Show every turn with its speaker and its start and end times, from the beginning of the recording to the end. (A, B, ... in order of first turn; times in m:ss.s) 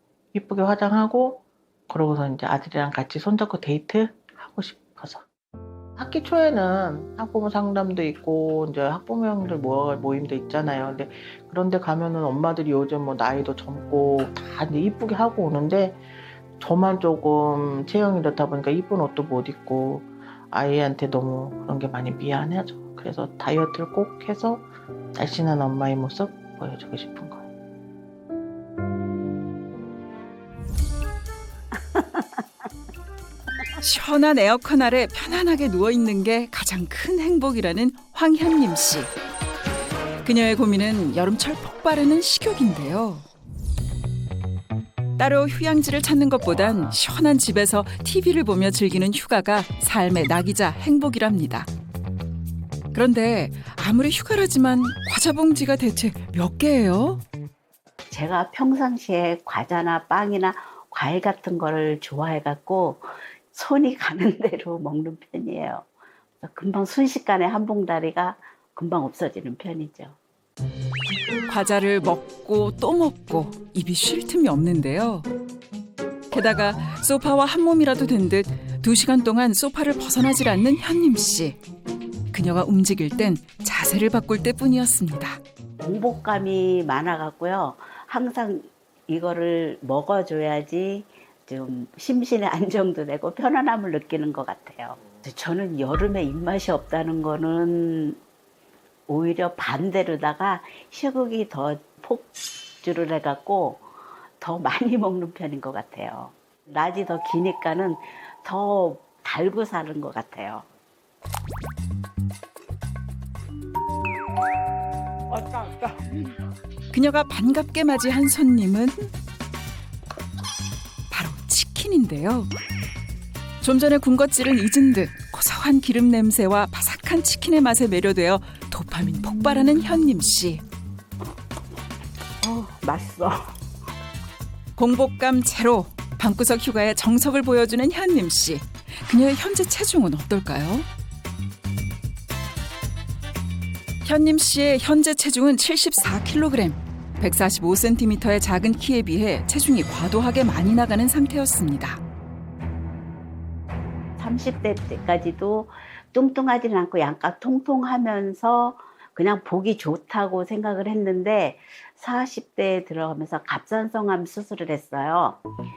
0:00.3-0:05.2 A
0:06.0-0:16.0 A
0:16.6-0:27.4 A
0:33.8-0:39.1 B
0:40.2-0:43.2 B
0:45.2-0:51.7 B
0:52.9-0:57.2 B
0:58.1-1:05.8 C
1:06.4-1:10.1 C
1:11.5-1:15.3 B
1:16.3-1:21.6 B
1:22.3-1:25.4 B
1:25.8-1:38.2 C
1:39.1-1:42.3 C
1:42.8-1:43.8 C
1:44.4-1:50.6 C
1:56.9-1:59.1 B
2:01.1-2:02.5 B
2:03.6-2:10.6 B
2:12.4-2:13.4 C
2:14.8-2:20.9 B
2:24.0-2:32.0 B
2:34.2-2:45.4 C